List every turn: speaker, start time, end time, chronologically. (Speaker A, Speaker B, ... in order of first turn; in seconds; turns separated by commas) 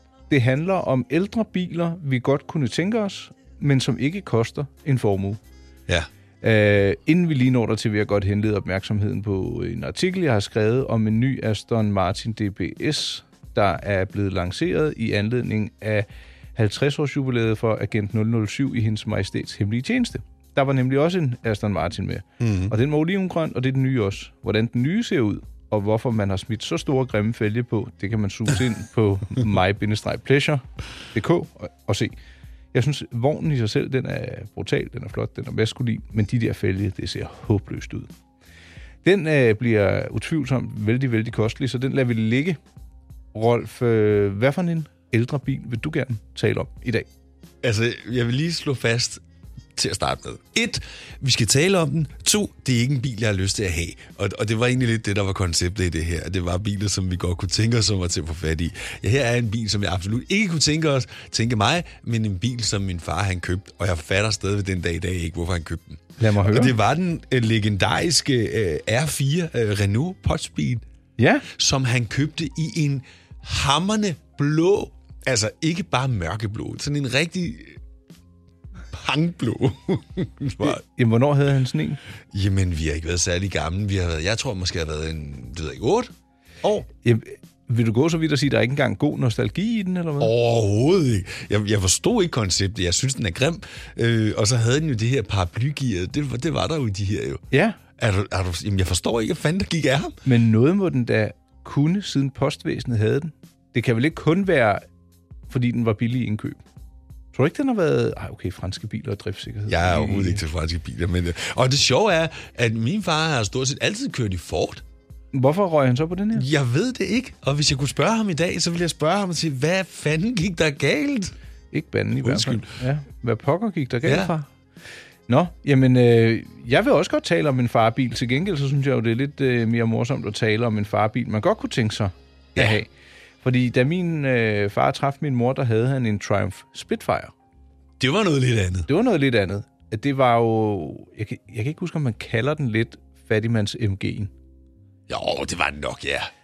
Speaker A: 0.3-5.4, Speaker A: 6.4-32.1, Speaker B: 22.4-22.7, Speaker A: 32.7-38.1, Speaker A: 39.0-42.6, Speaker A: 43.3-47.1, Speaker B: 47.6-49.2, Speaker B: 49.8-70.8, Speaker A: 66.2-66.7, Speaker A: 71.2-71.5, Speaker B: 71.5-77.8, Speaker B: 78.9-80.8, Speaker A: 80.6-82.0, Speaker B: 82.3-86.1, Speaker A: 86.8-90.3, Speaker B: 90.2-97.4, Speaker A: 97.5-97.8, Speaker B: 98.0-100.2, Speaker A: 100.2-104.8, Speaker A: 105.5-106.6, Speaker A: 107.3-110.4, Speaker B: 109.7-114.8, Speaker A: 115.3-116.5, Speaker B: 116.3-121.3, Speaker A: 121.7-124.5, Speaker B: 122.2-122.7, Speaker B: 124.0-124.3, Speaker A: 125.3-132.9, Speaker A: 133.4-137.3, Speaker B: 138.0-138.9, Speaker A: 138.9-144.3, Speaker B: 145.1-146.3